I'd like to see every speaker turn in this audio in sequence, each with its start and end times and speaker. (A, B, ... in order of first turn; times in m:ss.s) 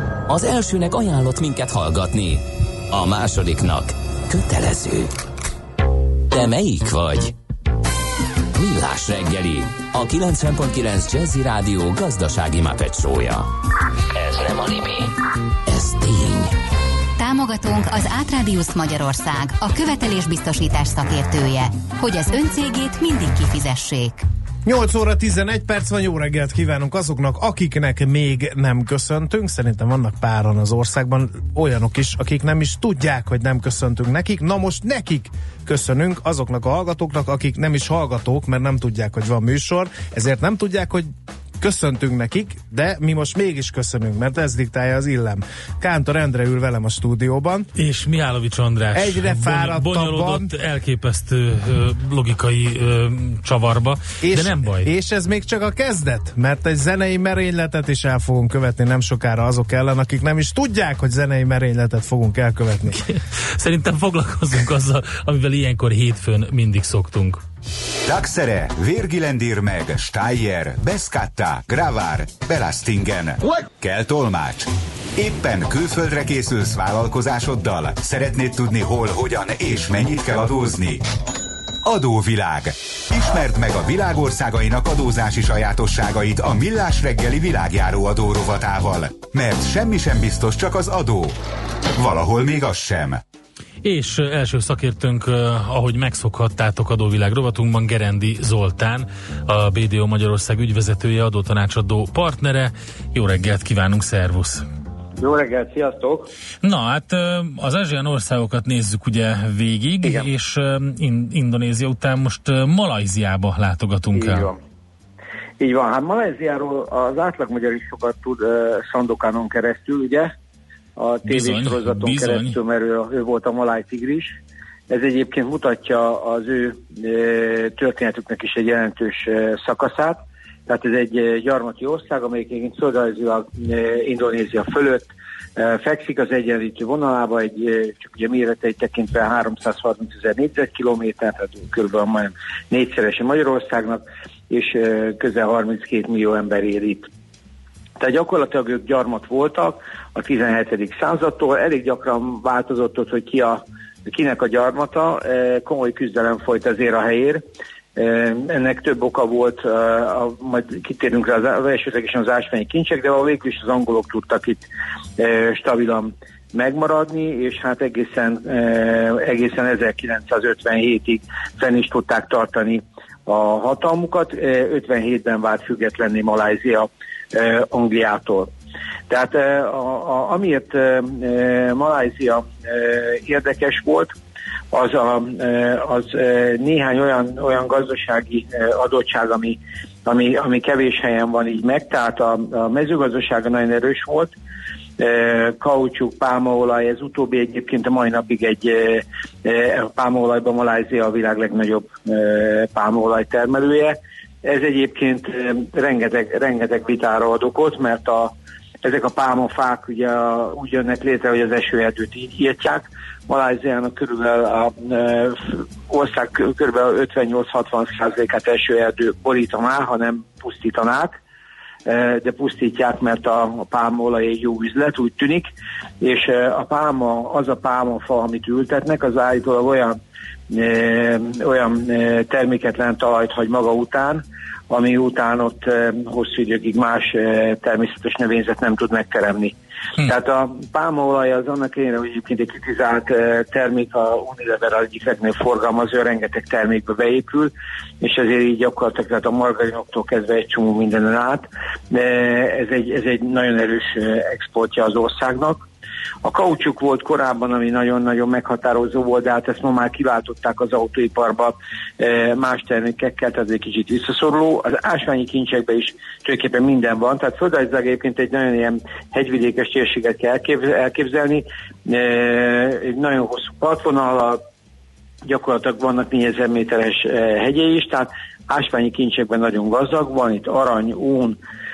0:00.3-0:05.1 A
0:06.3-0:07.4 A
0:08.6-0:13.5 A
0:14.2-0:15.1 A
0:15.7-0:16.5 A
0:17.2-0:24.2 B
0:24.6-0:47.7 C
0:47.8-0:54.9 D
0:48.9-0:50.5 C
0:54.2-1:03.0 C
1:03.0-1:07.4 D
1:08.1-1:21.0 E
1:21.8-1:31.4 E
1:32.0-1:33.2 E
1:33.8-1:44.6 D
1:45.2-1:46.3 F
1:46.6-1:54.5 D
1:54.1-1:54.6 F
1:55.6-2:00.3 F
2:01.0-2:04.4 F
2:01.3-2:02.6 D
2:04.9-2:27.1 F
2:28.0-2:37.4 F
2:38.0-2:44.6 F
2:45.2-2:58.5 F
2:59.1-3:04.1 F
3:04.7-3:14.3 F
3:15.0-3:41.2 F
3:41.9-3:45.5 F
3:46.0-3:50.0 F
3:50.5-4:15.6 F
4:16.2-4:34.4 F
4:35.3-4:41.4 F